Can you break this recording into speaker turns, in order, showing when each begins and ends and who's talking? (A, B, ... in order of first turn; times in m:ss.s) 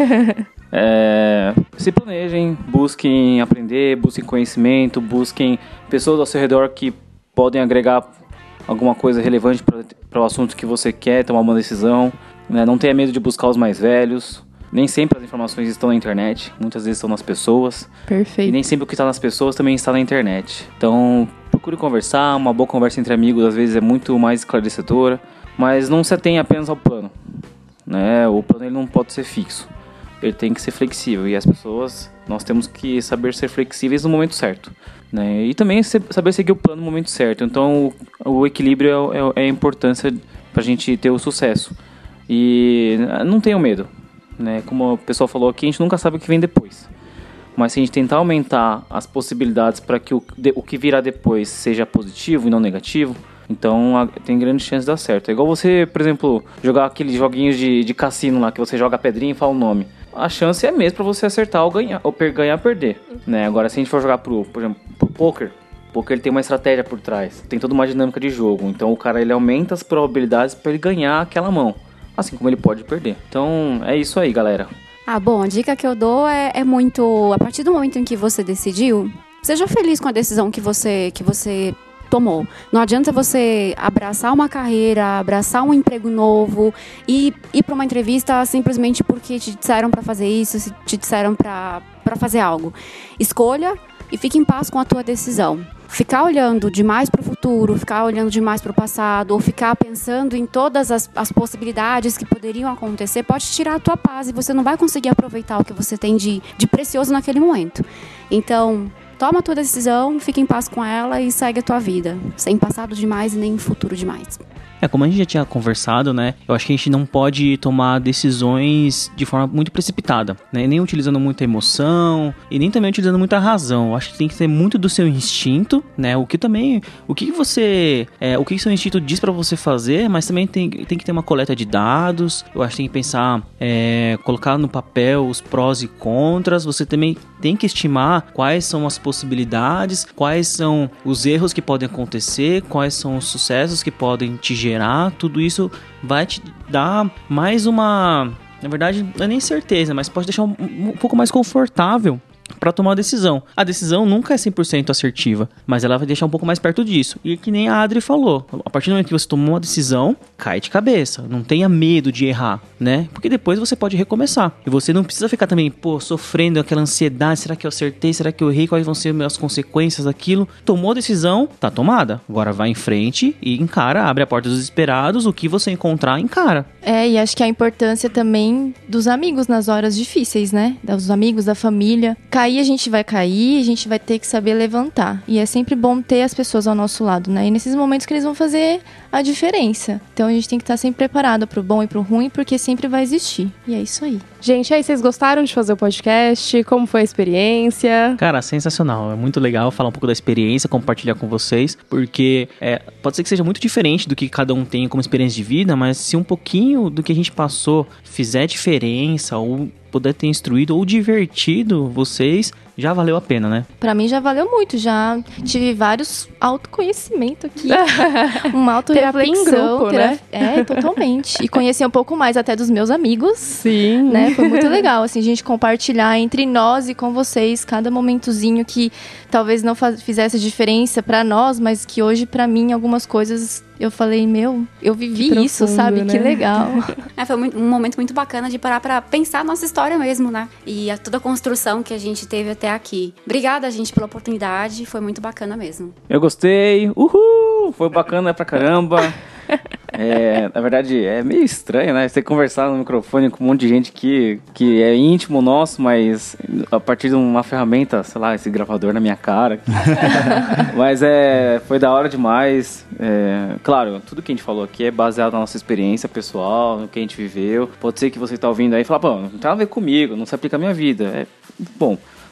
0:00.7-0:08.1 A
0:08.7-0:17.9 A
0:18.1-0:18.6 B
0:18.4-0:27.1 A
0:27.9-0:29.7 A
0:30.2-0:41.8 A
0:42.3-0:46.9 A
0:47.6-1:14.7 A
1:15.1-1:54.4 C
1:54.8-2:56.7 D
2:56.8-3:14.2 E
3:14.4-3:18.2 B
3:18.2-3:33.7 D
3:33.8-3:56.9 E
3:37.7-3:40.9 B
3:43.5-3:44.8 B
3:55.1-3:56.9 B
3:57.2-4:05.9 C
4:06.1-4:09.2 A
4:09.9-4:32.0 A